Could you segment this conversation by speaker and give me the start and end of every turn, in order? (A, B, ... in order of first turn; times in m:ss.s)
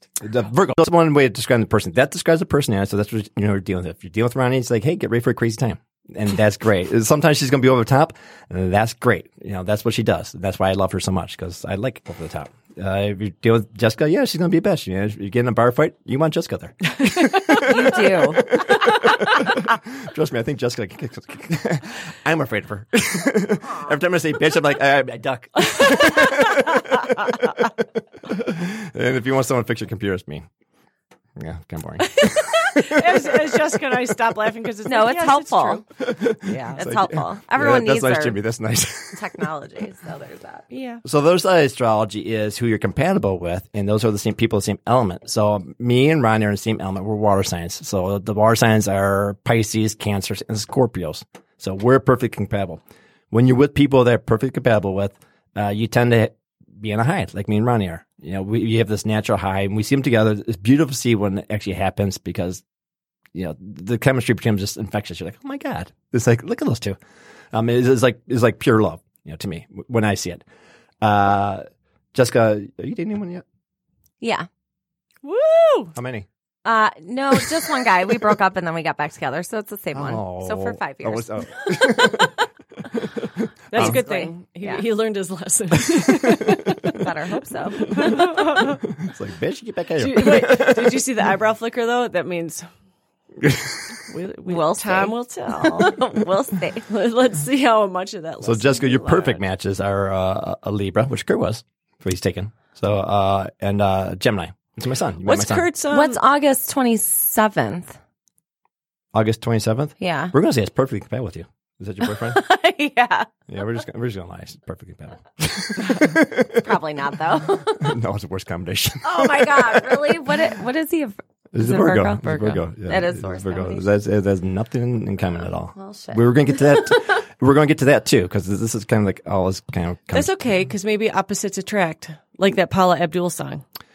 0:00.2-0:30.4 A
0:17.6-0:18.6 B
0:25.7-0:26.8 C
0:31.4-0:33.6 A
0:32.1-0:35.8 C
0:34.9-0:35.8 B
0:36.0-0:39.4 A
0:36.4-0:38.4 B
0:39.1-0:40.6 B
0:40.7-0:41.0 C
0:41.0-1:02.6 A
1:03.3-1:07.0 A
1:07.5-1:10.4 A
1:11.0-1:13.4 A
1:14.2-1:14.5 B
1:15.2-1:15.9 C
1:15.9-1:16.3 A
1:16.6-1:22.2 B
1:19.9-1:22.4 A
1:22.9-1:24.0 A
1:23.7-1:27.0 C
1:23.7-1:24.8 B
1:26.0-1:26.5 A
1:26.8-1:28.2 B
1:27.8-1:28.8 C
1:28.6-1:31.1 A
1:30.0-1:32.7 C
1:33.4-1:33.8 A
1:34.0-1:36.0 C
1:34.5-1:36.8 B
1:36.9-1:39.4 C
1:38.4-1:45.7 A
1:45.2-1:46.2 C
1:45.9-1:48.0 B
1:49.1-1:52.4 A
1:50.0-1:50.3 B
1:52.0-1:53.3 B
1:53.5-1:56.7 A
1:56.5-1:58.0 B
1:57.8-2:00.4 A
1:59.0-2:03.9 B
2:01.5-2:10.3 A
2:05.7-2:06.2 B
2:10.1-2:13.6 C